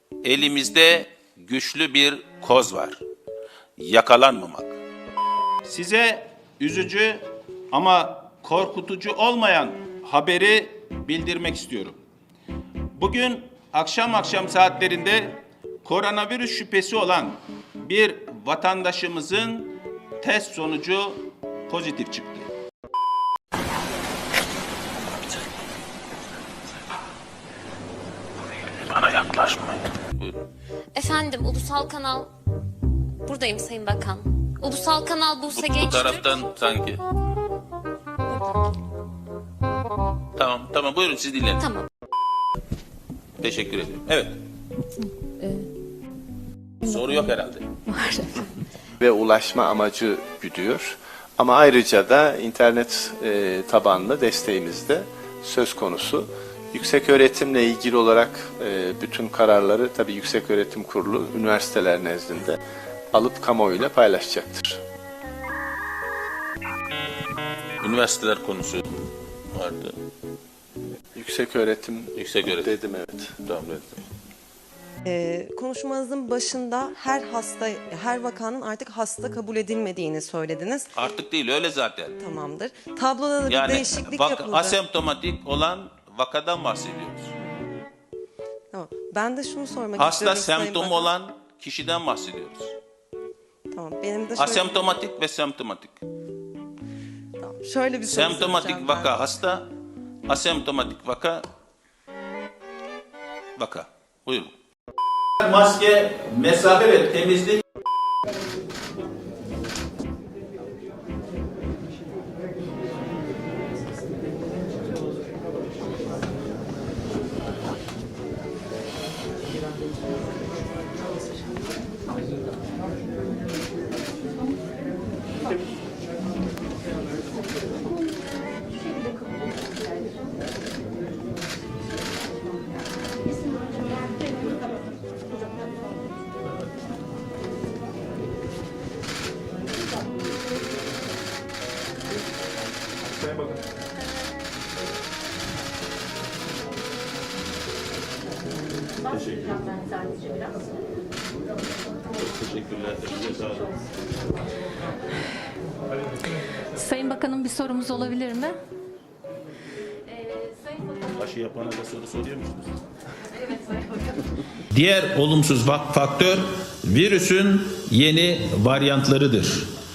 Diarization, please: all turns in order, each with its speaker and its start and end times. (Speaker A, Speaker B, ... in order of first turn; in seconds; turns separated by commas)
Speaker A: 0.2-3.0, Speaker A: 3.8-4.8, Speaker A: 5.6-12.0, Speaker A: 12.9-22.5, Speaker A: 28.7-30.4, Speaker B: 30.9-32.3, Speaker B: 33.2-36.4, Speaker A: 35.5-37.0, Speaker B: 38.3-38.7, Speaker A: 40.4-41.7, Speaker B: 41.6-41.9, Speaker A: 43.4-44.4, Speaker C: 45.4-45.7, Speaker A: 46.8-47.7, Speaker C: 47.9-48.5, Speaker D: 49.0-62.6, Speaker D: 63.1-64.8, Speaker A: 67.8-68.9, Speaker A: 69.5-70.0, Speaker D: 71.1-73.3, Speaker A: 72.1-72.8, Speaker A: 73.4-74.0, Speaker E: 75.0-80.9, Speaker A: 80.9-82.2, Speaker E: 82.2-84.8, Speaker A: 83.5-87.3, Speaker E: 88.7-91.1, Speaker A: 90.0-92.7, Speaker E: 93.7-94.8, Speaker A: 94.3-96.0, Speaker E: 97.4-99.1, Speaker A: 98.1-99.7, Speaker A: 100.3-101.5, Speaker A: 103.5-104.5, Speaker A: 105.4-107.6, Speaker A: 149.1-149.8, Speaker A: 152.1-153.8, Speaker C: 156.8-158.6, Speaker A: 161.0-162.7, Speaker C: 163.5-164.0, Speaker A: 164.6-169.7